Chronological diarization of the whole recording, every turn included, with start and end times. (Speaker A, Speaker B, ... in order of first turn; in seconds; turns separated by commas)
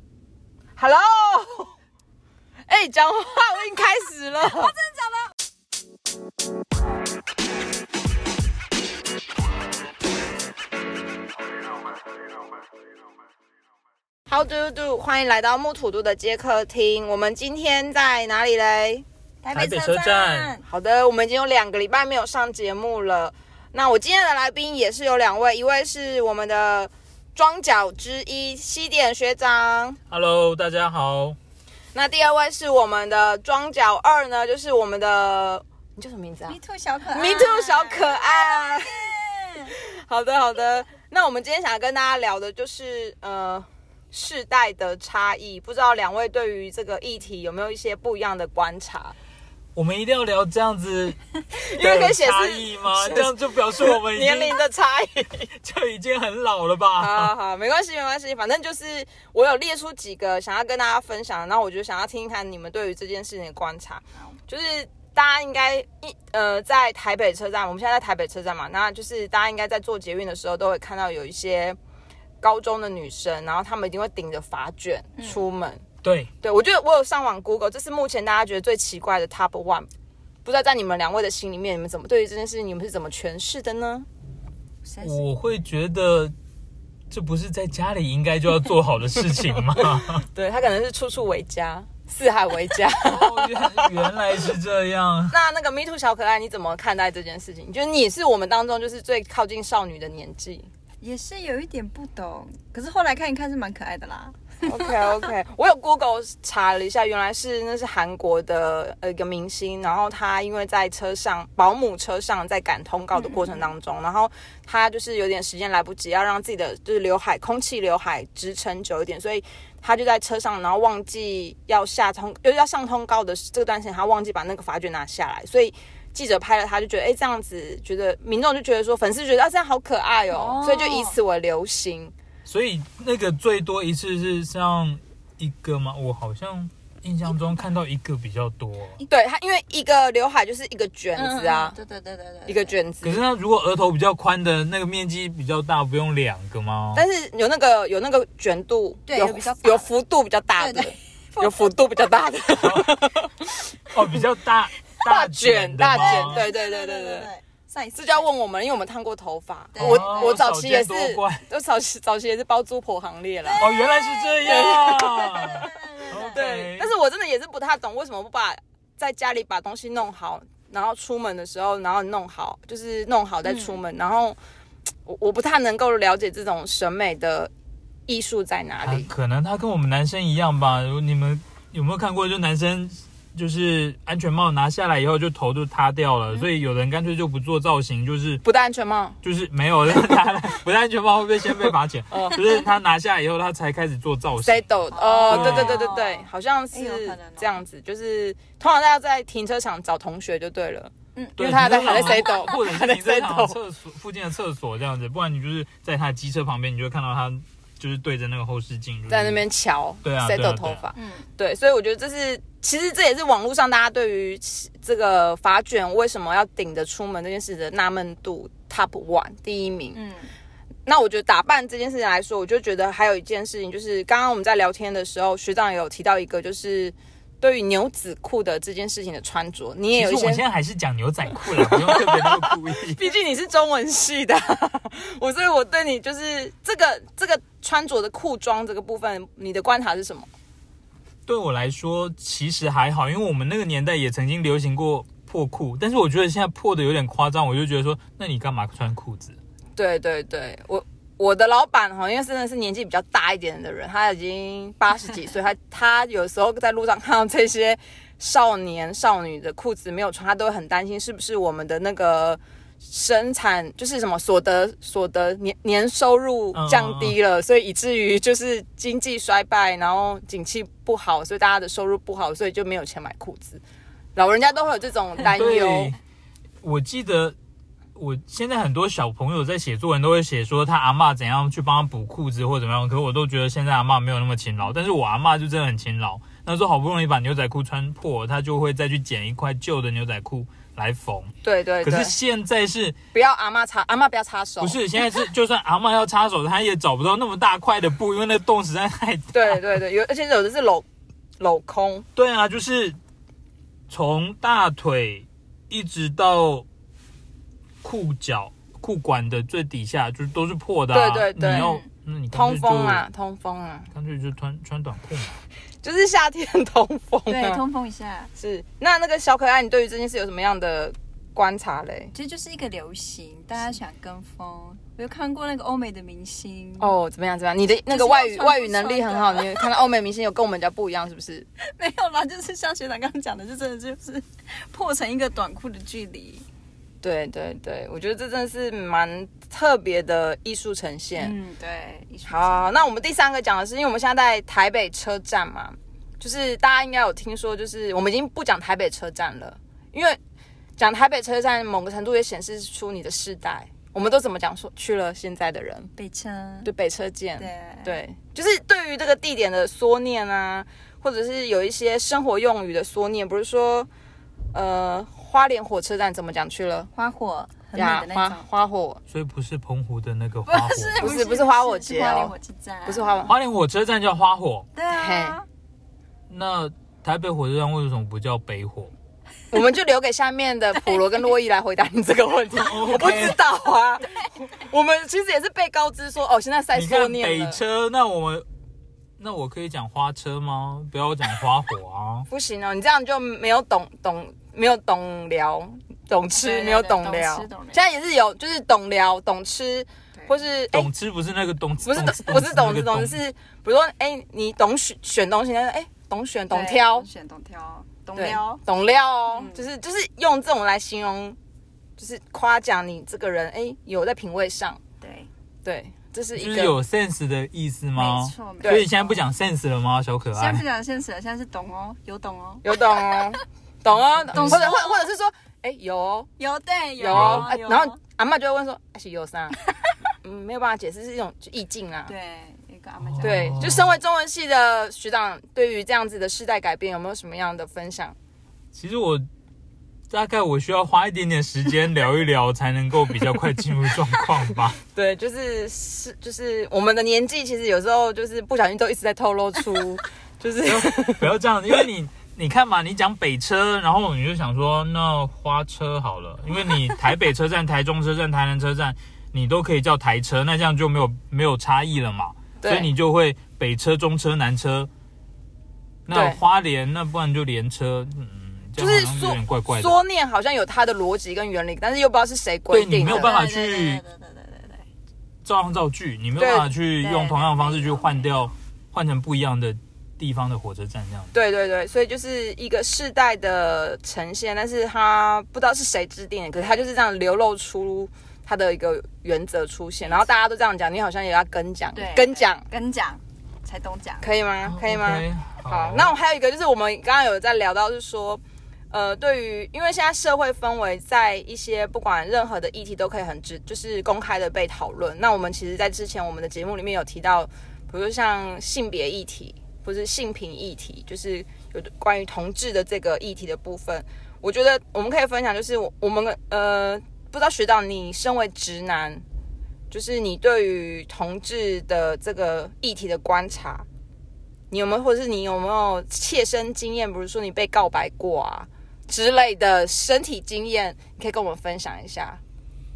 Speaker A: 0.8-1.7, Speaker A: 2.7-4.8, Speaker B: 4.6-4.9, Speaker A: 14.3-19.1, Speaker B: 19.4-20.6, Speaker C: 19.5-20.6, Speaker A: 20.6-30.0, Speaker C: 30.1-31.4, Speaker A: 31.9-36.6, Speaker B: 36.5-39.7, Speaker A: 37.1-39.1, Speaker A: 39.6-49.1, Speaker C: 49.7-54.6, Speaker A: 51.5-55.5, Speaker C: 55.5-57.3, Speaker A: 57.0-71.8, Speaker A: 72.4-75.8, Speaker B: 75.2-75.4, Speaker C: 76.0-76.3, Speaker A: 76.4-79.9, Speaker A: 80.5-84.1, Speaker B: 84.8-85.3, Speaker C: 85.0-86.3, Speaker C: 87.1-90.2, Speaker A: 89.7-93.9, Speaker C: 93.0-95.4, Speaker A: 95.3-100.7, Speaker B: 101.0-105.3, Speaker A: 104.6-132.1, Speaker B: 113.1-113.6, Speaker B: 130.3-131.2, Speaker C: 132.5-139.0, Speaker A: 139.1-141.8, Speaker B: 141.2-142.7, Speaker A: 142.5-143.2, Speaker C: 143.0-147.0, Speaker A: 146.9-153.5, Speaker B: 149.1-149.9, Speaker B: 150.6-151.8, Speaker C: 152.6-152.9, Speaker C: 153.9-156.5, Speaker A: 155.1-157.3, Speaker B: 156.0-158.3, Speaker A: 157.9-163.7, Speaker B: 159.7-160.4, Speaker C: 159.8-161.4, Speaker B: 163.4-166.4, Speaker C: 163.6-166.9, Speaker A: 164.4-165.6, Speaker A: 166.3-174.4, Speaker B: 173.4-173.8, Speaker A: 175.1-177.5, Speaker A: 178.1-179.1, Speaker C: 178.8-188.4, Speaker A: 188.4-189.2, Speaker C: 189.2-194.7, Speaker A: 192.1-192.4, Speaker A: 194.4-203.6, Speaker B: 194.9-197.6, Speaker C: 195.3-195.8, Speaker B: 201.2-202.5, Speaker C: 201.4-209.4, Speaker A: 209.1-220.0, Speaker C: 210.0-210.9, Speaker B: 210.9-211.3, Speaker B: 219.9-220.3, Speaker A: 220.9-230.4, Speaker C: 229.9-233.0, Speaker A: 231.4-240.3, Speaker C: 241.3-249.4, Speaker A: 249.8-273.6, Speaker C: 266.5-267.2, Speaker A: 274.2-275.9, Speaker C: 275.2-276.0, Speaker C: 276.6-277.4, Speaker C: 277.9-292.9, Speaker A: 291.4-292.1, Speaker A: 293.1-294.8, Speaker C: 294.6-299.6, Speaker A: 299.3-300.9, Speaker A: 301.4-302.1, Speaker C: 302.1-303.0, Speaker C: 303.9-306.7, Speaker C: 307.8-313.1, Speaker A: 310.9-311.8, Speaker B: 311.5-311.9, Speaker A: 312.3-313.9, Speaker C: 313.9-315.4, Speaker A: 315.8-317.6, Speaker B: 317.3-318.3, Speaker A: 318.4-322.1, Speaker B: 322.1-326.9, Speaker A: 326.8-331.5, Speaker B: 327.9-329.7, Speaker B: 331.6-336.4, Speaker A: 337.0-341.4, Speaker B: 341.2-342.8, Speaker A: 342.2-350.2, Speaker A: 350.8-355.9, Speaker B: 356.0-356.7, Speaker A: 356.6-363.9, Speaker B: 357.4-358.0, Speaker A: 364.5-366.9, Speaker B: 366.9-368.4, Speaker A: 367.7-369.0, Speaker C: 369.1-371.2, Speaker B: 370.5-373.3, Speaker A: 371.0-372.3, Speaker A: 372.9-373.3, Speaker C: 373.3-374.7, Speaker B: 374.7-375.4, Speaker A: 374.9-375.4, Speaker C: 376.3-378.9, Speaker A: 379.5-387.6, Speaker C: 382.6-383.4, Speaker C: 386.7-388.4, Speaker C: 389.2-392.3, Speaker A: 392.3-400.9, Speaker B: 396.4-397.9, Speaker C: 400.7-403.2, Speaker A: 401.8-407.1, Speaker B: 406.5-408.6, Speaker A: 408.1-411.4, Speaker B: 409.3-409.7, Speaker A: 412.0-414.8, Speaker B: 415.0-415.3, Speaker A: 415.6-416.8, Speaker C: 416.4-420.7, Speaker B: 417.9-419.2, Speaker A: 418.6-418.9, Speaker B: 420.3-423.4, Speaker A: 422.6-426.3, Speaker C: 424.3-424.7, Speaker B: 424.3-425.1, Speaker B: 426.4-428.0, Speaker A: 427.0-429.6, Speaker C: 427.1-427.5, Speaker A: 430.2-432.1, Speaker B: 432.1-433.6, Speaker C: 433.0-433.9, Speaker A: 433.2-438.1, Speaker C: 438.7-439.2, Speaker C: 440.1-444.8, Speaker A: 444.9-451.3, Speaker C: 450.6-464.9, Speaker A: 462.6-462.9, Speaker C: 466.1-470.0, Speaker A: 466.1-466.4, Speaker A: 468.8-473.4, Speaker C: 472.7-474.0, Speaker B: 473.0-474.9, Speaker C: 475.4-481.3, Speaker A: 476.4-476.7, Speaker B: 477.0-478.3, Speaker A: 481.3-492.6, Speaker B: 491.9-494.3, Speaker A: 494.2-519.2, Speaker C: 494.6-496.1, Speaker A: 519.9-523.9, Speaker A: 524.7-532.4